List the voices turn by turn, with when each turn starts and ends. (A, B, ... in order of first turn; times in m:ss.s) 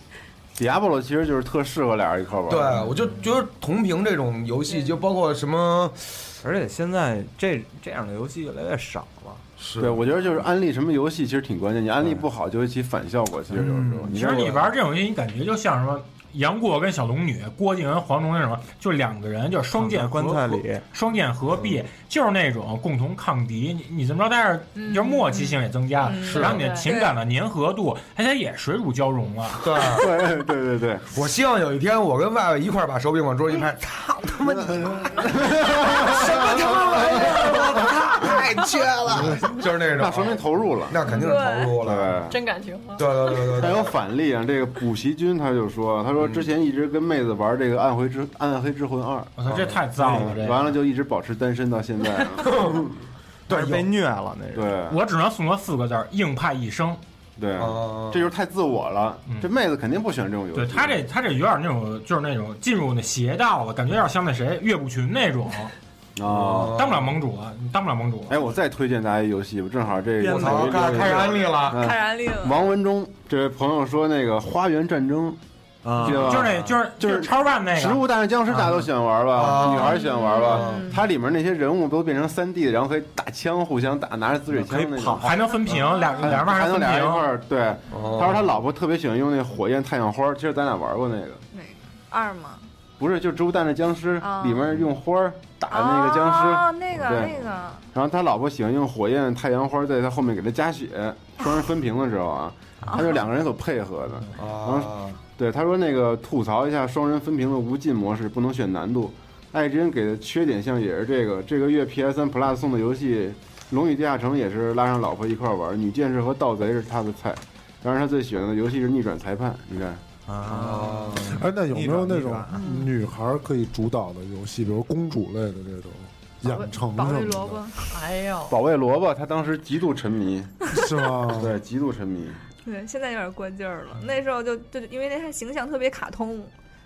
0:00.6-0:02.9 A
0:02.5-0:06.3 B
0:06.4-0:09.4 C
0:09.6-0:10.0 B
0:09.8-0:14.7 A
0:13.5-0:14.1 B
0:14.1-0:29.9 D
0:19.7-0:20.8 C
0:24.8-0:25.6 E
0:26.0-0:27.2 F
0:26.2-0:26.9 E
0:26.2-0:26.6 B
0:29.6-0:30.1 B
0:30.0-0:31.0 A
0:31.1-0:42.2 B
0:34.4-0:35.3 G
0:40.0-0:41.0 A
0:41.0-0:41.8 F
0:41.8-0:42.4 A
0:42.3-0:43.4 E
0:43.0-0:44.0 B
0:43.4-0:52.8 A
0:46.2-0:46.5 B
0:49.4-0:50.8 D
0:49.5-0:49.8 B
0:52.4-0:52.9 B
0:53.5-0:53.9 B
0:53.5-0:54.7 C
0:54.5-0:55.0 A
0:54.9-0:57.0 D
0:57.4-1:01.0 A
0:57.6-0:58.3 B
0:59.2-0:59.5 D
1:00.5-1:05.7 D
1:06.2-1:06.8 A
1:06.2-1:07.2 B
1:06.7-1:08.4 D
1:08.3-1:15.4 A
1:10.2-1:10.8 C
1:10.3-1:11.8 B
1:11.7-1:12.7 F
1:15.8-1:16.4 C
1:16.0-1:31.4 A
1:16.0-1:18.1 D
1:19.3-1:20.9 B
1:19.6-1:21.0 F
1:24.5-1:25.4 C
1:25.2-1:27.3 D
1:25.7-1:26.3 F
1:27.9-1:28.6 B
1:31.5-1:32.6 F
1:33.0-1:37.4 A
1:34.2-1:34.7 F
1:35.7-1:37.9 F
1:37.9-2:00.0 A
1:42.8-1:43.2 F
1:44.4-1:45.2 B
2:00.3-2:02.6 C
2:00.5-2:01.4 B
2:01.2-2:07.6 G
2:06.5-2:07.8 F
2:07.9-2:08.5 E
2:08.5-2:10.5 A
2:10.7-2:11.6 G
2:11.3-2:12.4 A
2:12.6-2:16.5 F